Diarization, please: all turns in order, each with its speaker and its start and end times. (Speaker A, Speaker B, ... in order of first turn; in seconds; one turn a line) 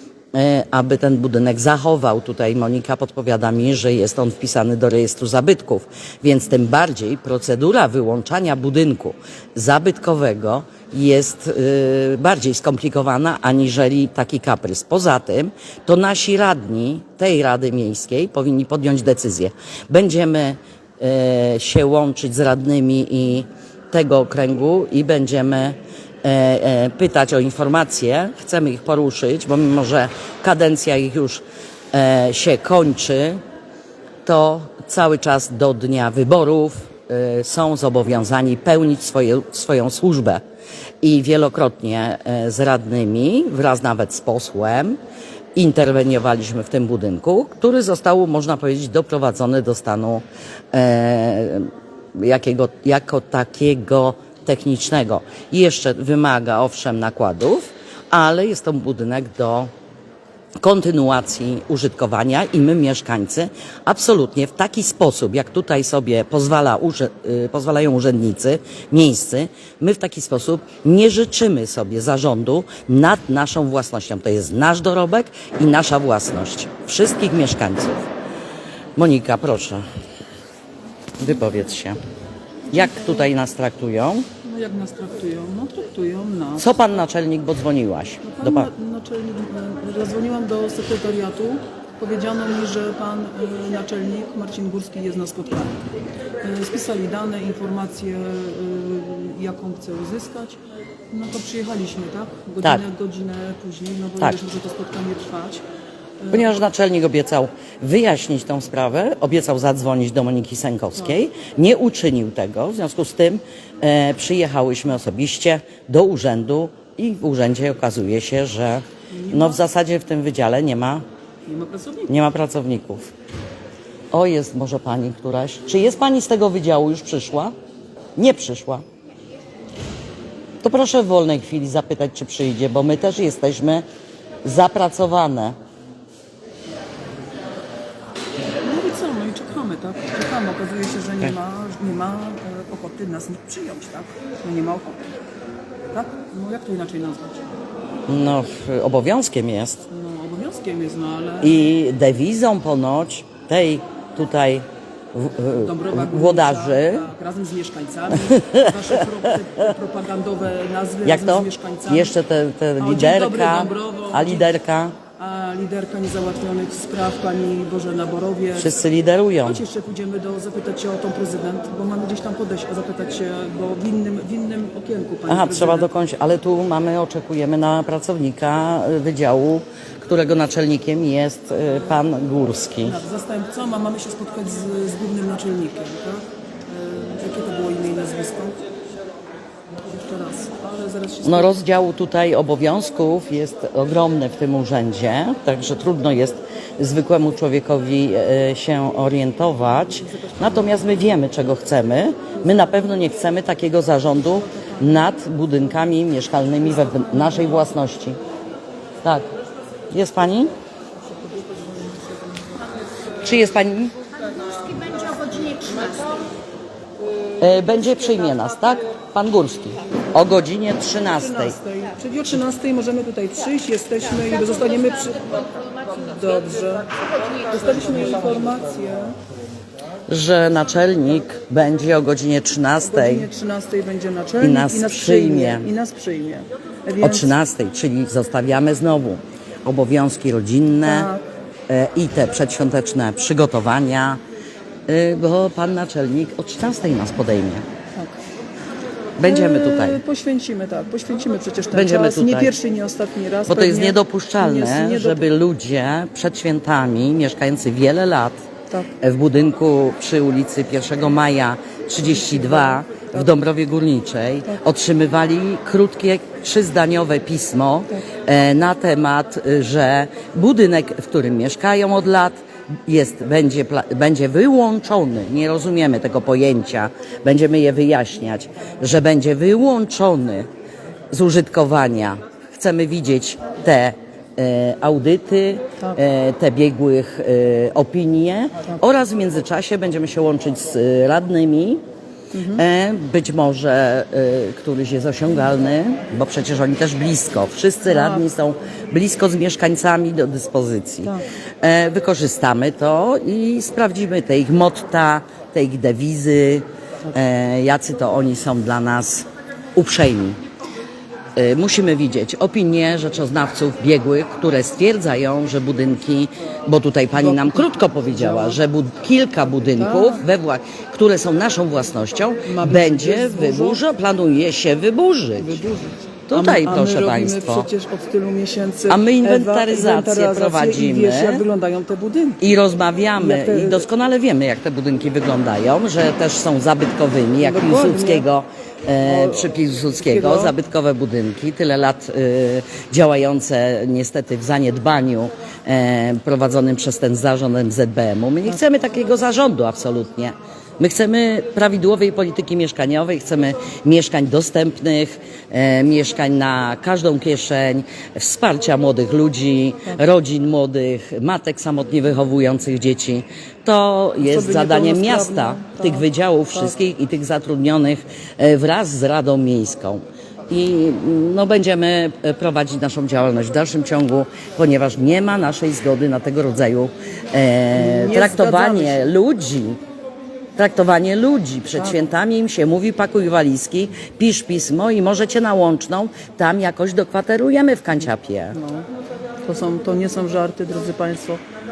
Speaker A: 0.3-33.4
Speaker A: 34.2-40.4
Speaker A: 41.0-45.0
Speaker A: 45.5-59.7
Speaker A: 60.6-78.0
Speaker A: 79.0-79.8
Speaker A: 81.2-82.0
Speaker A: 82.7-84.3
Speaker B: 82.7-83.2
Speaker B: 84.4-86.8
Speaker A: 86.6-88.7
Speaker B: 88.3-95.8
Speaker B: 96.4-100.6
Speaker B: 101.1-105.6
Speaker A: 106.3-121.0
Speaker B: 119.1-119.6
Speaker B: 121.5-122.1
Speaker A: 122.1-123.1
Speaker A: 124.1-127.5
Speaker A: 128.2-128.8
Speaker A: 130.6-133.8
Speaker A: 134.4-135.5
Speaker B: 138.6-145.0
Speaker B: 145.9-147.4
Speaker A: 148.1-149.8
Speaker B: 149.9-151.6
Speaker A: 151.4-157.0
Speaker B: 155.6-162.2
Speaker A: 158.2-158.7
Speaker A: 161.0-165.0
Speaker B: 162.8-164.6
Speaker B: 165.2-168.7
Speaker A: 168.6-169.6
Speaker B: 169.4-175.9
Speaker A: 175.3-183.0
Speaker B: 182.8-188.6
Speaker B: 189.9-191.5
Speaker A: 191.2-208.2
Speaker B: 200.0-200.8
Speaker B: 204.4-204.9
Speaker A: 209.0-209.3
Speaker A: 209.9-210.5
Speaker B: 211.1-212.6
Speaker A: 213.2-213.9
Speaker C: 214.1-216.3
Speaker A: 217.4-221.6
Speaker B: 220.9-229.2
Speaker C: 224.1-226.3
Speaker C: 226.9-228.1
Speaker A: 230.1-233.3
Speaker B: 232.8-237.3
Speaker A: 234.4-235.7
Speaker A: 237.0-241.1
Speaker B: 240.8-241.2
Speaker A: 241.7-244.2
Speaker A: 244.9-247.6
Speaker A: 249.2-250.0
Speaker B: 249.2-255.2
Speaker A: 251.7-252.5
Speaker A: 253.5-258.4
Speaker A: 259.0-280.5
Speaker B: 262.3-262.6
Speaker A: 281.1-291.8
Speaker B: 292.3-292.6
Speaker A: 292.5-310.4
Speaker B: 297.8-298.2
Speaker A: 311.3-325.6
Speaker B: 317.1-318.6
Speaker B: 319.7-320.2
Speaker B: 322.4-323.8
Speaker B: 325.4-332.5
Speaker A: 326.3-327.7
Speaker A: 328.9-331.4
Speaker A: 332.4-379.8
Speaker B: 333.2-333.9
Speaker B: 337.4-338.2
Speaker B: 339.0-340.5
Speaker B: 364.2-366.7
Speaker B: 377.7-379.1
Speaker A: 380.6-388.6
Speaker B: 388.5-388.9
Speaker B: 389.4-391.4